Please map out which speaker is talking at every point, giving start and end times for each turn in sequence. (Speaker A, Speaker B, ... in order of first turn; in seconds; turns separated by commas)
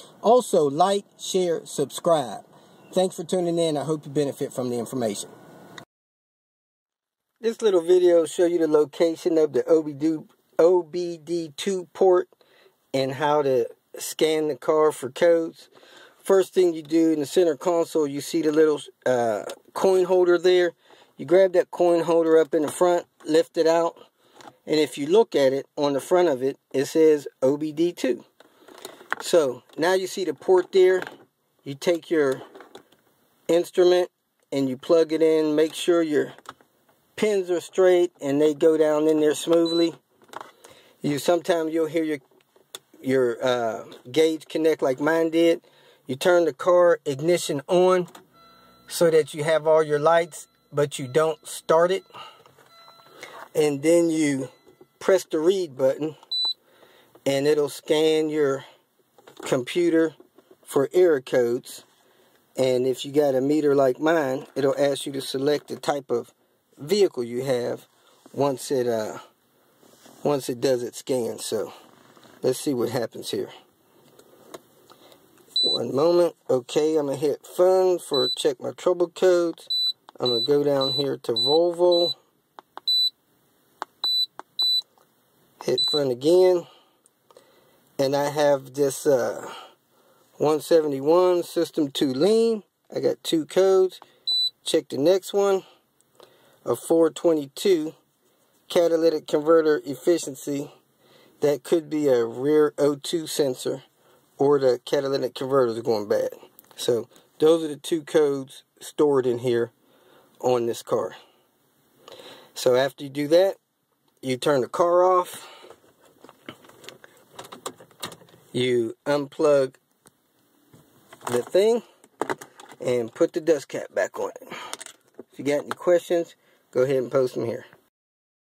Speaker A: 0.2-5.3, Speaker A: 7.4-12.3, Speaker A: 12.9-15.7, Speaker A: 16.2-24.0, Speaker A: 24.6-28.2, Speaker A: 29.2-31.1, Speaker A: 31.6-32.4, Speaker A: 33.5-36.4, Speaker A: 37.1-40.0, Speaker A: 41.0-42.2, Speaker A: 43.0-48.1, Speaker A: 48.9-52.0, Speaker A: 53.5-56.1, Speaker A: 57.2-58.6, Speaker A: 59.4-61.9, Speaker A: 62.6-69.2, Speaker A: 70.2-71.7, Speaker A: 72.4-73.5, Speaker A: 75.6-82.1, Speaker A: 85.6-86.6, Speaker A: 88.0-89.5, Speaker A: 90.4-94.0, Speaker A: 94.6-95.6, Speaker A: 96.6-98.0, Speaker A: 98.7-100.7, Speaker A: 101.4-103.8, Speaker A: 104.4-109.7, Speaker A: 110.4-111.2, Speaker A: 112.5-113.6, Speaker A: 114.2-115.5, Speaker A: 118.5-119.8, Speaker A: 121.3-121.8, Speaker A: 122.8-124.4, Speaker A: 125.3-127.7